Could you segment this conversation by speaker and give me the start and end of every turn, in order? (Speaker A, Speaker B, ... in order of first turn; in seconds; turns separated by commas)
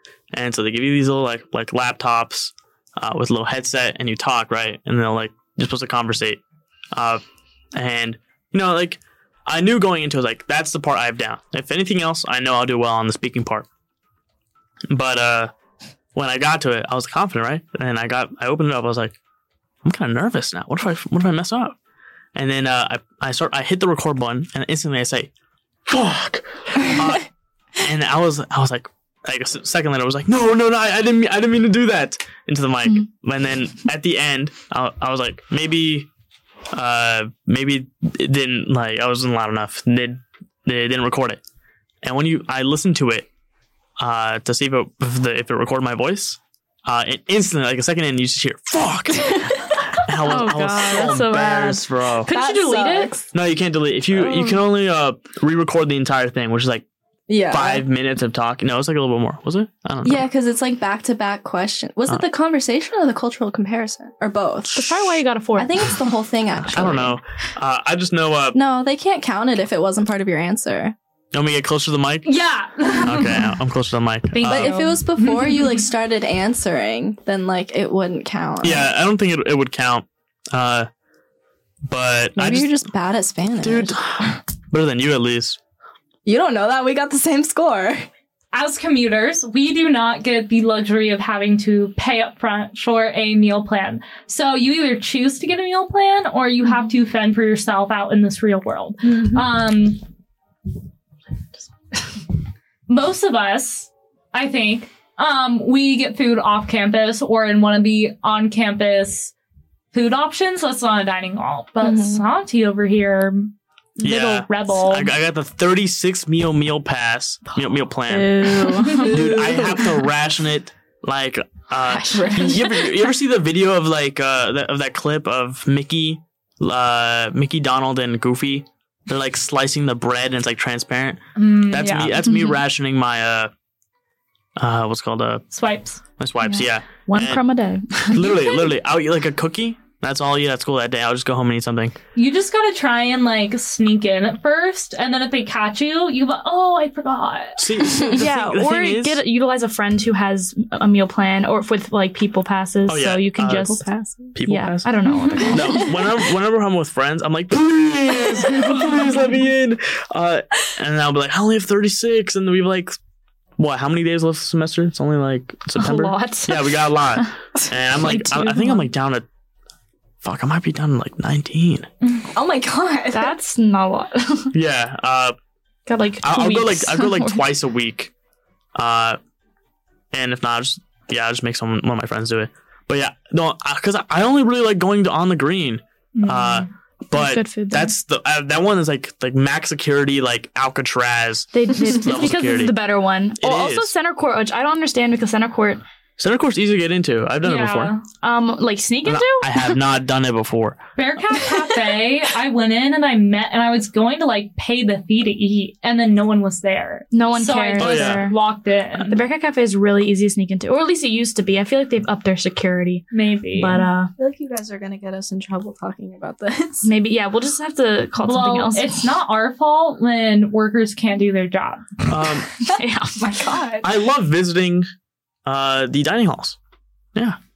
Speaker A: 0.3-6.4, Speaker A: 6.9-7.2, Speaker A: 7.7-13.7, Speaker A: 14.9-15.5, Speaker A: 16.1-19.1, Speaker A: 19.8-21.8, Speaker A: 22.3-25.3, Speaker A: 25.9-36.1, Speaker A: 36.7-41.4, Speaker A: 42.0-43.3, Speaker A: 44.0-52.3, Speaker B: 49.2-49.6, Speaker C: 50.2-53.1, Speaker B: 52.3-53.3, Speaker A: 53.3-56.8, Speaker B: 54.2-54.6, Speaker B: 57.3-57.9, Speaker A: 57.5-60.2, Speaker B: 60.0-65.0, Speaker C: 64.7-66.0, Speaker B: 65.6-67.2, Speaker A: 66.6-68.6, Speaker B: 68.5-70.9, Speaker A: 71.3-72.3, Speaker D: 72.2-73.5, Speaker A: 73.0-74.7, Speaker D: 74.3-75.8, Speaker B: 74.4-78.9, Speaker A: 78.6-80.9, Speaker A: 81.9-82.7, Speaker B: 82.3-84.0, Speaker A: 83.6-85.6, Speaker B: 86.2-88.1, Speaker D: 88.5-100.0, Speaker D: 102.9-109.3, Speaker D: 109.9-115.1, Speaker B: 111.8-112.2, Speaker A: 114.0-133.5, Speaker C: 118.1-119.4, Speaker B: 118.9-120.0, Speaker B: 121.8-122.9, Speaker D: 131.3-132.3, Speaker A: 134.6-135.4, Speaker D: 135.5-136.0, Speaker A: 136.2-137.4, Speaker C: 136.4-138.4, Speaker A: 138.1-142.0, Speaker D: 142.1-147.7, Speaker A: 147.6-149.2, Speaker C: 148.0-155.9, Speaker A: 152.9-154.9, Speaker B: 155.3-155.8, Speaker A: 155.4-163.0, Speaker A: 163.6-169.2, Speaker C: 165.8-167.3, Speaker C: 167.9-168.9, Speaker A: 170.2-171.9, Speaker D: 172.0-172.3, Speaker B: 172.3-173.3, Speaker C: 173.1-174.5, Speaker A: 174.5-175.3, Speaker C: 175.8-177.4, Speaker A: 176.2-178.1, Speaker A: 178.7-179.2, Speaker A: 180.1-192.7, Speaker D: 186.1-186.7, Speaker C: 187.1-187.9, Speaker C: 191.5-195.8, Speaker A: 193.4-193.9, Speaker A: 196.2-197.9, Speaker D: 197.4-198.0, Speaker C: 198.2-199.8, Speaker A: 199.0-200.8, Speaker D: 201.0-209.2, Speaker C: 207.1-208.4, Speaker A: 207.8-208.2, Speaker C: 209.1-214.1, Speaker D: 213.1-213.9, Speaker B: 214.2-216.9, Speaker C: 216.8-219.1, Speaker D: 218.2-222.4, Speaker A: 222.1-222.5, Speaker C: 222.7-223.3, Speaker B: 223.2-223.9, Speaker A: 223.8-224.9, Speaker A: 225.4-226.6